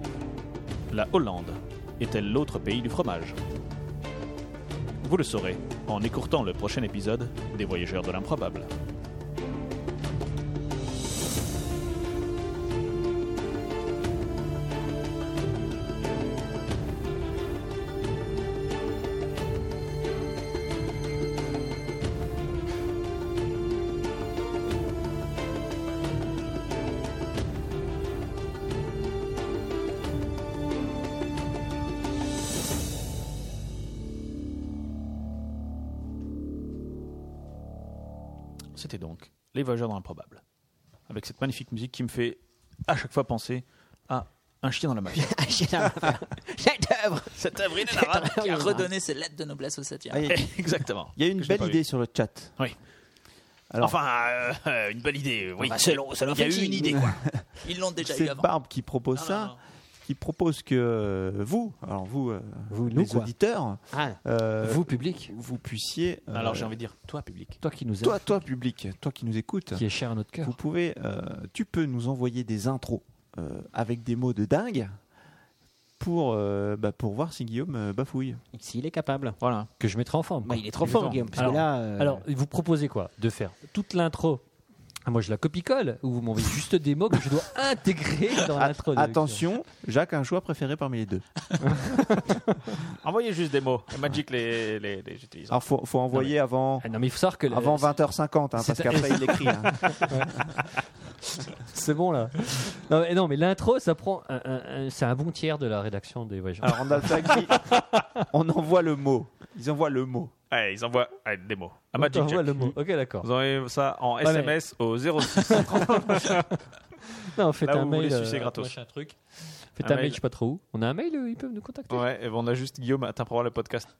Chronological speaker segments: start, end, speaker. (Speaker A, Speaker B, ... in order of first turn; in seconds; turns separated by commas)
Speaker A: 0.9-3.4, Speaker A: 5.0-8.7, Speaker A: 38.8-40.4, Speaker A: 41.1-45.3, Speaker B: 45.1-48.9, Speaker A: 47.4-48.4, Speaker C: 48.3-50.3, Speaker D: 50.1-52.6, Speaker A: 50.3-51.8, Speaker A: 53.8-57.2, Speaker B: 55.6-57.2, Speaker D: 57.0-57.4, Speaker C: 57.6-58.5, Speaker D: 58.0-66.8, Speaker A: 59.1-59.6, Speaker B: 62.7-63.3, Speaker B: 63.9-64.2, Speaker E: 64.6-65.3, Speaker A: 66.3-67.6, Speaker E: 67.6-68.4, Speaker D: 68.0-69.8, Speaker E: 69.7-70.5, Speaker D: 70.4-75.0, Speaker D: 76.0-78.4, Speaker B: 78.5-79.4, Speaker A: 79.4-79.7, Speaker E: 79.8-80.6, Speaker B: 80.4-82.2, Speaker A: 80.8-81.6, Speaker E: 81.4-84.4, Speaker E: 85.0-89.4, Speaker D: 88.4-91.9, Speaker E: 91.6-92.5, Speaker A: 93.0-95.6, Speaker D: 95.5-96.9, Speaker E: 96.2-98.0, Speaker D: 97.5-100.6, Speaker E: 98.6-100.5, Speaker E: 101.6-108.2, Speaker D: 106.6-110.3, Speaker A: 110.5-116.6, Speaker E: 112.0-113.3, Speaker E: 114.2-114.6, Speaker E: 115.2-116.6, Speaker E: 117.3-119.2, Speaker A: 117.6-118.8, Speaker E: 119.8-122.0, Speaker A: 119.8-120.2, Speaker A: 121.9-123.9